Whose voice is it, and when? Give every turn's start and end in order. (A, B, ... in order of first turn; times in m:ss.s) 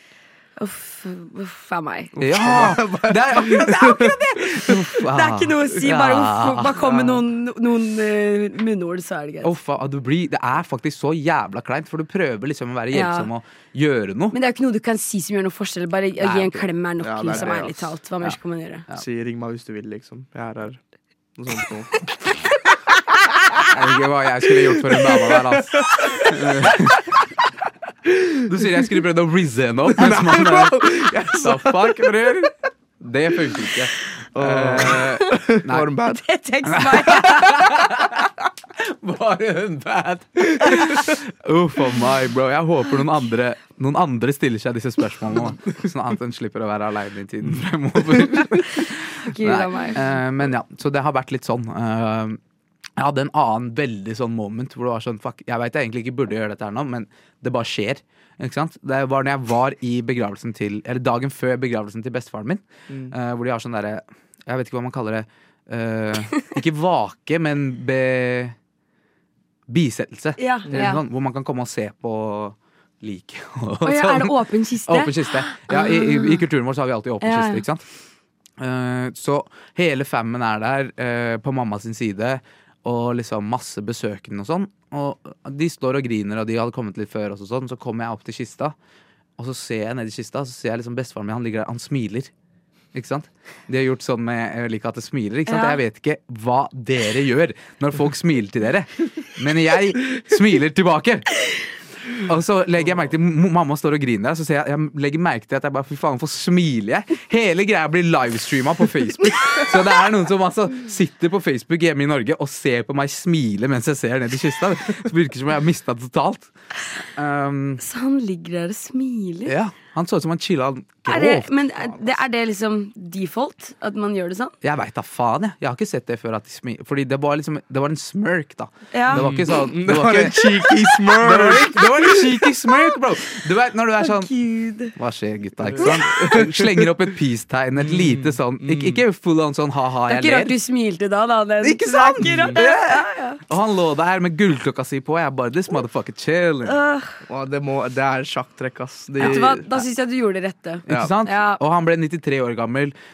0:00.6-0:02.1 A
0:02.2-0:04.2 B
0:02.2-0:07.0 C
0:05.0-0:09.5 A
0:09.4-0:14.4 C
0:12.9-0:13.3 A
0:14.3-0:18.8 A
0:16.2-0:16.6 C
0:17.0-0:17.9 B
0:17.3-0:17.7 C
0:18.9-0:20.8 B
0:21.4-0:22.1 B
0:23.7-0:27.1 C
0:24.9-0:26.7 B
0:28.1-0:28.4 B
0:28.4-0:35.9 C
0:29.9-0:32.1 B
0:34.3-0:36.2 B
0:36.1-0:37.8 A
0:36.6-0:38.2 C
0:38.8-0:52.4 C
0:48.5-0:50.1 A
0:53.0-1:08.6 C
1:02.9-1:03.1 B
1:09.7-1:17.8 C
1:10.4-1:11.0 A
1:10.7-1:10.9 B
1:13.8-1:16.4 A
1:17.2-1:17.6 A
1:18.6-1:28.7 C
1:29.4-1:32.3 C
1:32.9-1:41.4 C
1:35.5-1:35.8 A
1:42.2-1:56.5 C
1:57.1-1:57.8 C
1:57.8-1:59.5 A
1:59.4-2:01.5 C
2:01.1-2:04.5 A
2:04.6-2:14.3 C
2:08.9-2:09.2 A
2:09.1-2:12.3 B
2:14.0-2:14.9 A
2:14.9-2:20.5 C
2:15.6-2:16.9 B
2:17.8-2:19.0 B
2:20.1-2:23.4 A
2:21.6-2:26.8 C
2:22.2-2:22.6 B
2:26.6-2:27.2 A
2:27.2-2:29.7 B
2:29.2-2:31.6 A
2:29.2-2:29.8 C
2:30.9-2:32.9 C